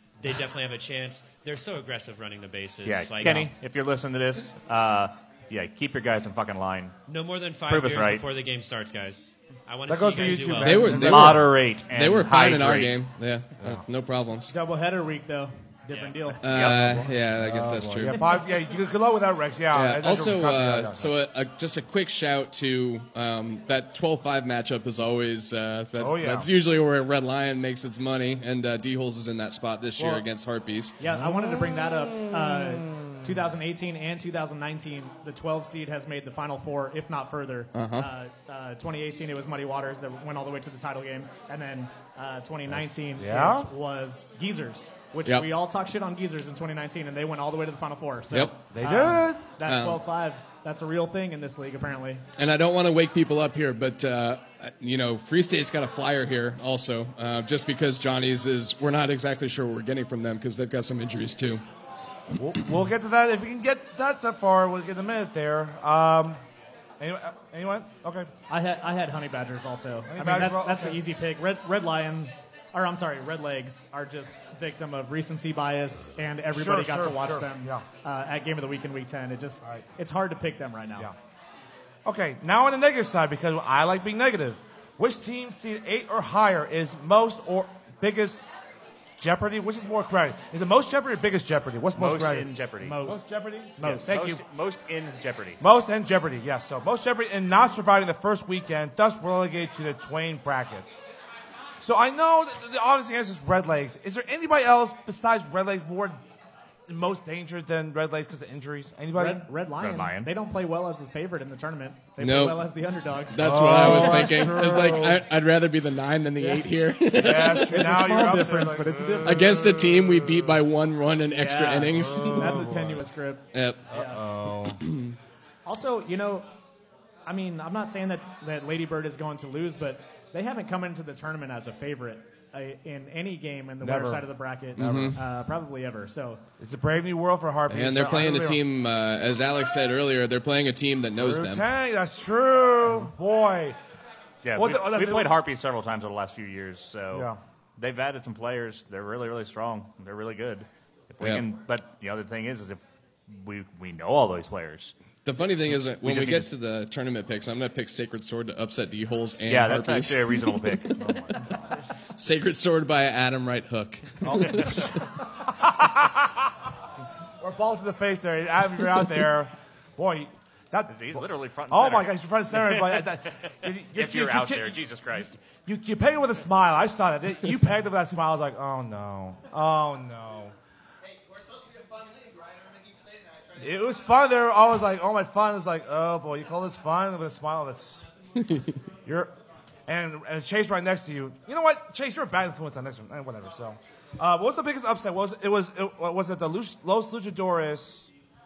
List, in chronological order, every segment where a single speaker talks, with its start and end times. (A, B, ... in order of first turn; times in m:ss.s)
0:00.2-0:03.5 A
0:02.8-0:06.9 B
0:07.1-0:10.9 A
0:07.7-0:08.2 B
0:09.9-0:11.5 C
0:10.6-0:14.5 D
0:10.9-0:13.0 B
0:14.5-0:16.4 E
0:15.9-0:16.3 A
0:16.4-0:18.2 D
0:16.4-0:17.0 B
0:16.6-0:21.1 C
0:19.7-0:31.0 D
0:26.0-0:26.5 C
0:30.0-0:30.2 C
0:31.0-0:52.2 E
0:31.2-0:33.3 C
0:37.7-0:38.1 D
0:43.2-0:43.7 C
0:48.3-0:48.6 D
0:48.7-0:49.4 C
0:49.6-0:50.0 D
0:52.4-1:01.6 D
1:02.4-1:06.4 C
1:07.0-1:08.3 C
1:08.5-1:21.1 E
1:10.1-1:11.0 C
1:16.5-1:17.8 C
1:22.0-1:28.5 C
1:29.2-1:32.5 C
1:32.0-1:33.0 B
1:32.8-1:34.1 E
1:33.0-1:34.4 C
1:33.8-1:35.6 B
1:35.6-1:41.0 C
1:41.8-1:46.2 C
1:46.9-1:49.5 C
1:49.2-1:54.5 E
1:49.8-1:50.3 B
1:52.2-1:52.6 D
1:53.3-1:57.8 D
1:53.4-1:55.2 C
1:56.4-1:56.7 E
1:57.1-2:00.6 C
1:57.3-1:59.4 E
1:59.2-2:02.7 D
2:01.4-2:04.2 E
2:01.9-2:03.0 C
2:03.5-2:03.8 D
2:03.9-2:04.8 C
2:04.8-2:05.2 D
2:05.6-2:06.5 E
2:07.2-2:16.4 E
2:13.8-2:14.2 C
2:14.8-2:15.2 C
2:14.8-2:15.2 D
2:16.6-2:18.6 C
2:17.7-2:21.6 D
2:21.2-2:23.8 C
2:24.4-2:34.9 B
2:24.5-2:25.4 C
2:27.1-2:27.4 C
2:35.2-2:41.1 D
2:35.9-2:36.5 B
2:39.5-2:40.9 B
2:41.0-2:41.4 C
2:42.2-2:44.9 D
2:44.2-2:44.9 C
2:45.6-2:46.5 C
2:47.4-3:00.5 C
2:50.9-2:53.1 B
2:53.9-2:55.4 B
3:03.5-3:08.1 C
3:09.0-3:09.3 C
3:09.9-3:18.1 C